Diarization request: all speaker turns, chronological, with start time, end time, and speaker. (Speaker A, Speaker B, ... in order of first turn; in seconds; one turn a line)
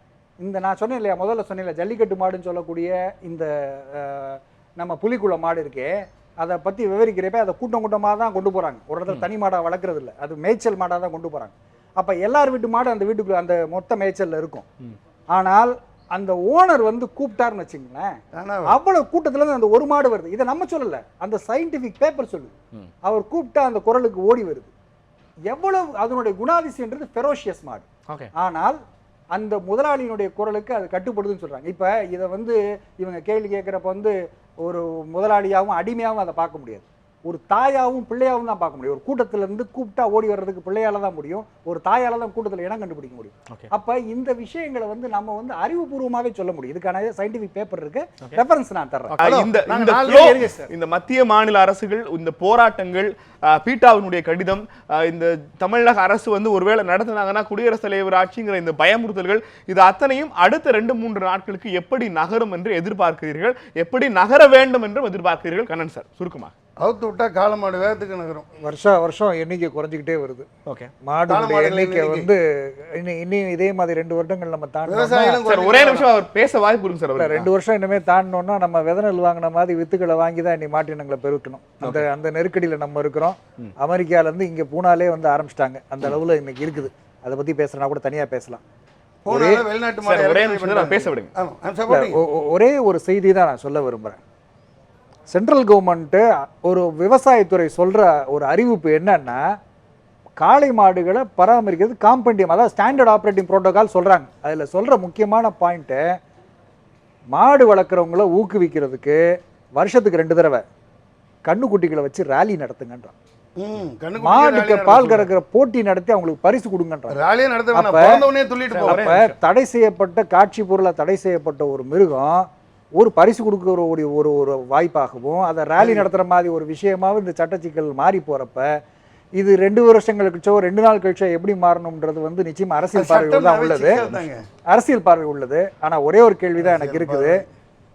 Speaker A: 0.4-14.7
Speaker A: 15.3-18.1
Speaker B: 18.3-18.8
Speaker A: 18.7-22.5
Speaker A: 23.0-24.7
Speaker A: 25.5-28.8
Speaker A: 29.4-49.2
Speaker C: 49.1-66.5
Speaker B: 49.2-50.7
Speaker B: 66.8-68.5
Speaker A: 68.6-70.5
Speaker C: 70.7-70.9
Speaker A: 71.0-75.4
Speaker B: 71.3-72.3
Speaker B: 74.9-76.1
Speaker C: 75.5-77.5
Speaker A: 77.2-88.6
Speaker B: 89.2-92.2
Speaker A: 89.3-89.6
Speaker C: 90.0-91.3
Speaker A: 91.9-94.2
Speaker A: 95.3-99.4
Speaker A: 100.4-106.0
Speaker A: 107.3-109.2
Speaker A: 109.8-110.6
Speaker A: 111.5-113.1
Speaker B: 113.6-115.3
Speaker A: 114.2-117.2
Speaker B: 117.1-119.1
Speaker A: 117.7-118.2
Speaker C: 118.7-119.4
Speaker A: 118.8-128.7
Speaker B: 125.8-126.1
Speaker A: 129.4-134.0
Speaker B: 132.9-134.4
Speaker A: 134.7-137.4
Speaker B: 136.6-137.4